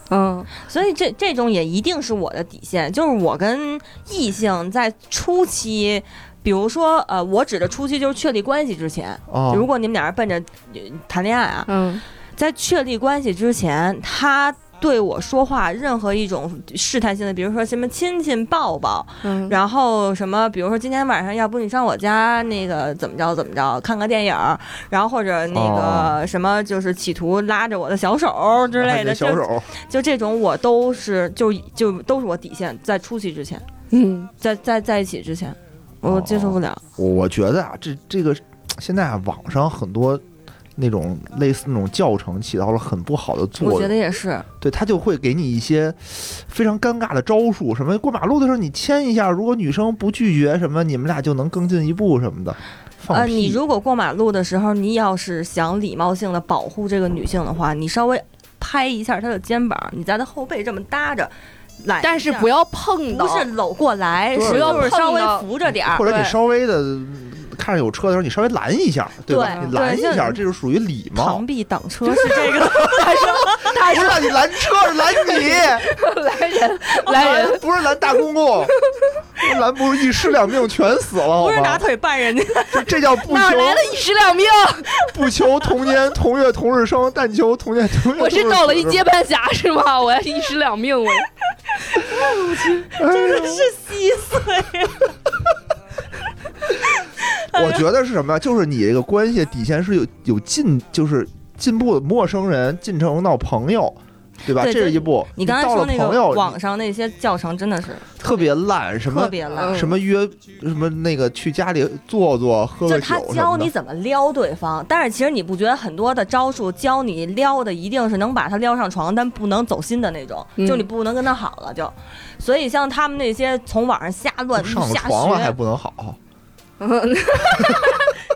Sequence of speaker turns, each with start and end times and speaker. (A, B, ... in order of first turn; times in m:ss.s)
0:00.1-0:00.5 A
0:00.6-0:11.8 B
0:09.3-0:09.7 C
0:11.7-0:12.0 A
0:12.4-0:33.7 B
0:19.2-0:19.6 A
0:25.5-0:26.2 C
0:28.8-0:29.7 C
0:33.9-0:34.3 A
0:34.4-0:36.8 B
0:36.0-0:40.2 C
0:40.8-0:44.0 C
0:43.6-0:44.5 B
0:44.6-0:53.6 C
0:53.1-1:02.5 B
1:02.0-1:03.5 A
1:03.1-1:06.1 B
1:04.3-1:04.9 C
1:04.4-1:05.5 A
1:05.7-1:11.4 C
1:06.0-1:06.4 A
1:09.3-1:10.4 B
1:09.3-1:09.7 A
1:11.1-1:13.8 B
1:12.4-1:17.6 A
1:12.6-1:15.9 C
1:17.1-1:17.5 B
1:17.1-1:18.7 C
1:19.4-1:21.8 C
1:21.3-1:22.9 B
1:22.7-1:23.9 C
1:23.2-1:25.0 A
1:25.0-1:29.1 C
1:28.2-1:31.3 A
1:32.2-1:35.2 B
1:32.3-1:32.7 A
1:32.9-1:33.7 C
1:36.8-1:37.8 B
1:37.5-1:46.6 C
1:44.5-1:48.5 B
1:48.2-1:53.7 C
1:49.0-1:49.8 B
1:49.5-1:50.0 A
1:52.9-2:05.6 B
2:00.6-2:00.9 A
2:04.6-2:06.2 C
2:06.8-2:08.2 A
2:07.6-2:07.9 C